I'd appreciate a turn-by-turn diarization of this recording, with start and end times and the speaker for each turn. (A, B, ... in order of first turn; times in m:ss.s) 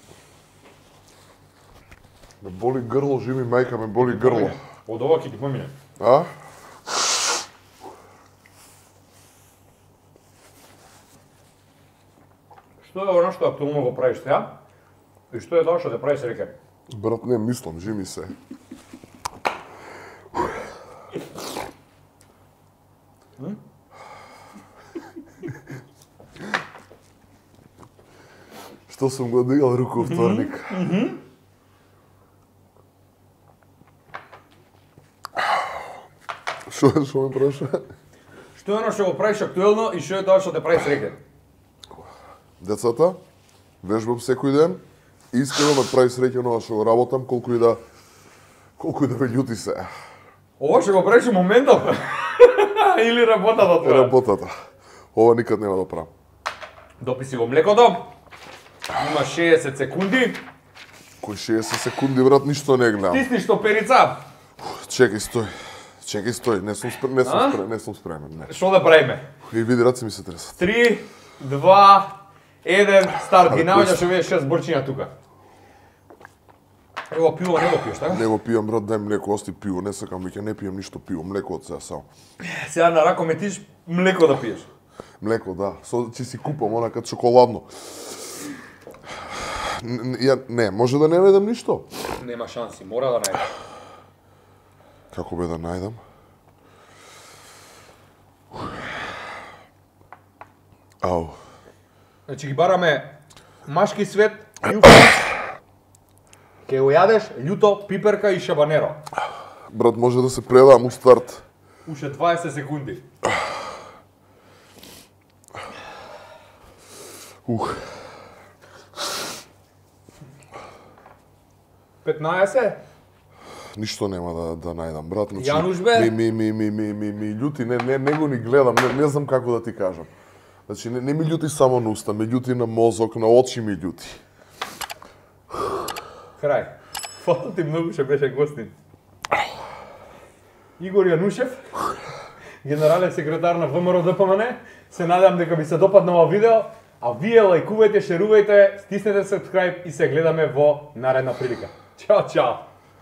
0:02.4-0:04.6 A
0:04.0-0:05.7 B
0:06.0-0:06.3 A
0:12.8-0:14.5 B
0:15.3-0:16.5 B
0:16.9-0:18.3 A
0:28.9-0:30.9 A
0:30.0-0:31.2 B
0:36.7-0:37.8 A
0:38.5-0:41.2 B
0:42.6-0:43.2 A
0:43.8-0:44.8 A
0:45.3-0:47.8 A
0:48.8-0:49.9 A
0:50.6-0:54.1 B
0:53.8-0:54.5 A
0:55.1-0:56.1 A
0:57.0-0:58.1 B
0:59.0-1:00.4 B
1:01.2-1:03.3 A
1:03.1-1:04.2 B
1:04.6-1:08.5 A
1:07.2-1:07.6 B
1:08.5-1:09.2 B
1:09.5-1:10.6 A
1:10.6-1:15.1 B
1:13.4-1:14.1 A
1:17.1-1:18.3 B
1:18.0-1:22.0 A
1:22.4-1:24.7 B
1:25.2-1:28.2 A
1:29.4-1:31.8 A
1:32.2-1:33.5 B
1:35.1-1:36.0 A
1:41.0-1:41.4 A
1:42.3-1:45.3 B
1:46.6-1:49.0 B
1:49.7-1:51.4 A
1:51.8-1:53.0 B
1:57.4-1:58.0 A
2:02.0-2:02.8 B
2:03.7-2:10.1 A
2:05.3-2:06.1 B
2:10.7-2:14.2 A
2:16.4-2:18.7 B
2:20.8-2:21.7 B
2:22.6-2:32.6 B